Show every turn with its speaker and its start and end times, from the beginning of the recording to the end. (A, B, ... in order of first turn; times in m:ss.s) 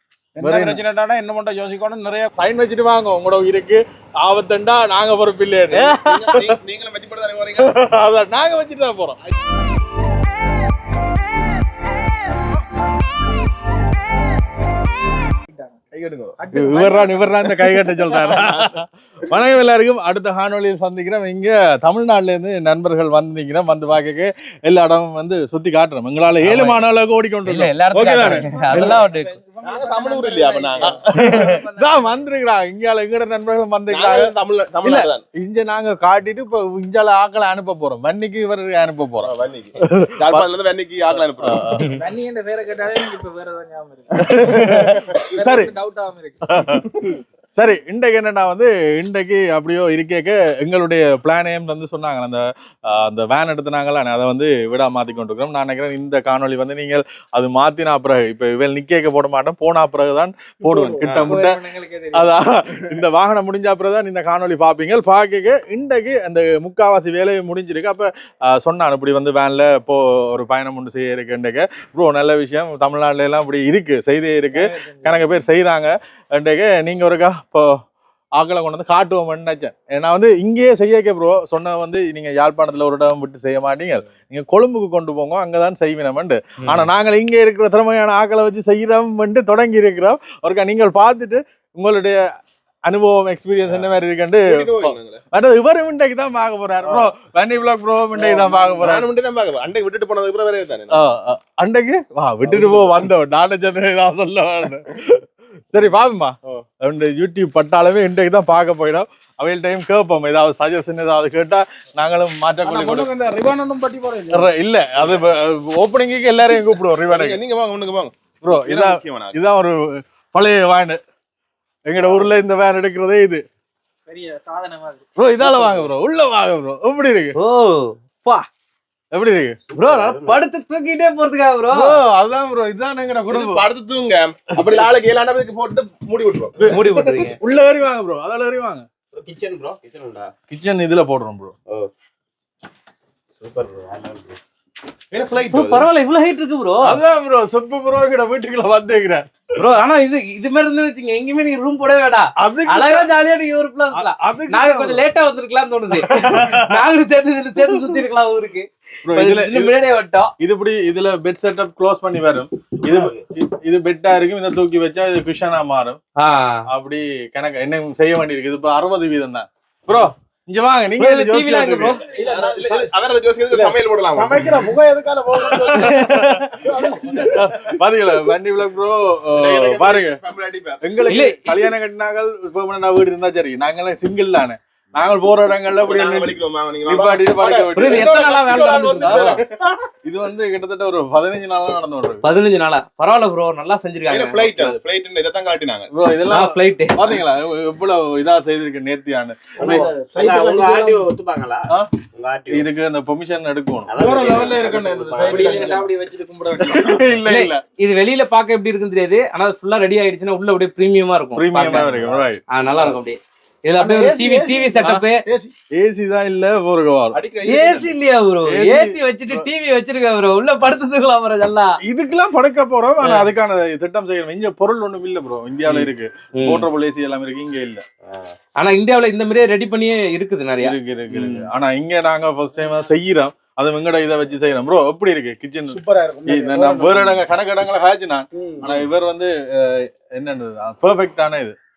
0:00.4-0:02.3 A
0:00.4-0:00.8 B
0:02.4-0:06.4 B
0:05.7-0:06.4 C
0:06.0-0:07.7 D
0:07.6-0:09.2 B
0:15.5-0:15.8 A
0:15.9-0:16.4 D
0:16.4-0:17.3 A
0:16.5-0:29.0 B
0:26.4-0:26.8 C
0:27.4-0:29.3 C
0:28.7-0:30.9 A
0:29.6-0:31.0 D
0:30.8-0:34.3 B
0:31.1-0:31.5 C
0:31.8-0:32.1 A
0:33.9-0:35.2 D
0:34.8-0:39.3 B
0:39.2-0:41.6 D
0:39.8-0:40.5 B
0:41.4-0:41.9 B
0:41.9-0:44.3 A
0:44.1-0:45.7 B
0:44.9-0:45.3 D
0:45.3-0:46.4 A
0:46.5-0:47.0 B
0:47.6-1:01.6 B
1:00.8-1:02.2 A
1:01.1-1:01.4 D
1:01.5-1:02.1 C
1:02.1-1:17.7 B
1:18.4-1:32.2 B
1:26.6-1:26.9 C
1:32.9-1:39.1 B
1:34.5-1:35.2 D
1:38.2-1:41.0 D
1:40.9-1:53.1 B
1:52.6-1:54.5 A
1:54.3-1:57.4 B
1:57.1-1:59.4 D
1:58.4-1:59.8 B
2:00.3-2:01.0 B
2:01.9-2:03.4 B
2:04.1-2:05.0 A
2:05.2-2:07.4 B
2:07.4-2:08.5 C
2:09.1-2:09.6 B
2:09.7-2:10.4 E
2:09.8-2:12.0 C
2:11.7-2:13.7 B
2:13.3-2:16.6 D
2:16.6-2:18.8 B
2:16.7-2:17.4 C
2:19.1-2:20.3 E
2:20.5-2:21.5 B
2:23.4-2:24.4 E
2:25.3-2:27.0 C
2:26.8-2:29.3 B
2:29.6-2:40.3 C
2:32.4-2:33.1 B
2:33.9-2:35.0 B
2:35.9-2:36.8 B
2:37.6-2:38.0 B
2:39.1-2:39.7 B
2:40.4-2:46.0 B
2:42.8-2:43.2 E
2:46.2-2:46.6 C
2:46.7-2:52.0 B
2:51.0-2:52.1 C
2:52.1-2:52.9 A
2:52.2-2:54.5 D
2:53.5-2:56.0 A
2:55.6-2:56.5 C
2:55.6-2:56.5 B
2:56.7-2:57.3 A
2:57.1-3:00.2 B
2:59.4-3:00.8 D
3:00.8-3:09.4 B
3:01.1-3:01.6 C
3:05.8-3:07.4 D
3:07.4-3:09.4 A
3:07.8-3:09.4 C
3:10.0-3:12.2 B
3:12.2-3:14.5 C
3:14.1-3:15.8 D
3:15.9-3:19.9 B
3:16.3-3:17.0 C
3:19.6-3:22.7 E
3:19.6-3:21.1 A
3:22.5-3:23.9 B
3:23.9-3:25.8 E
3:24.0-3:26.7 A
3:25.4-3:25.8 D
3:26.6-3:27.6 B
3:27.3-3:35.2 C
3:31.4-3:32.4 B
3:33.8-3:34.1 A
3:34.8-3:35.0 B
3:35.7-3:37.2 B
3:37.1-3:37.9 D
3:37.4-3:41.8 C
3:38.5-3:39.5 B
3:41.8-3:47.8 B
3:43.0-3:43.3 C
3:45.7-3:46.7 C
3:48.0-3:48.4 E
3:48.6-3:51.5 C
3:50.6-4:01.5 B
3:55.7-3:57.1 A
3:58.3-3:58.7 A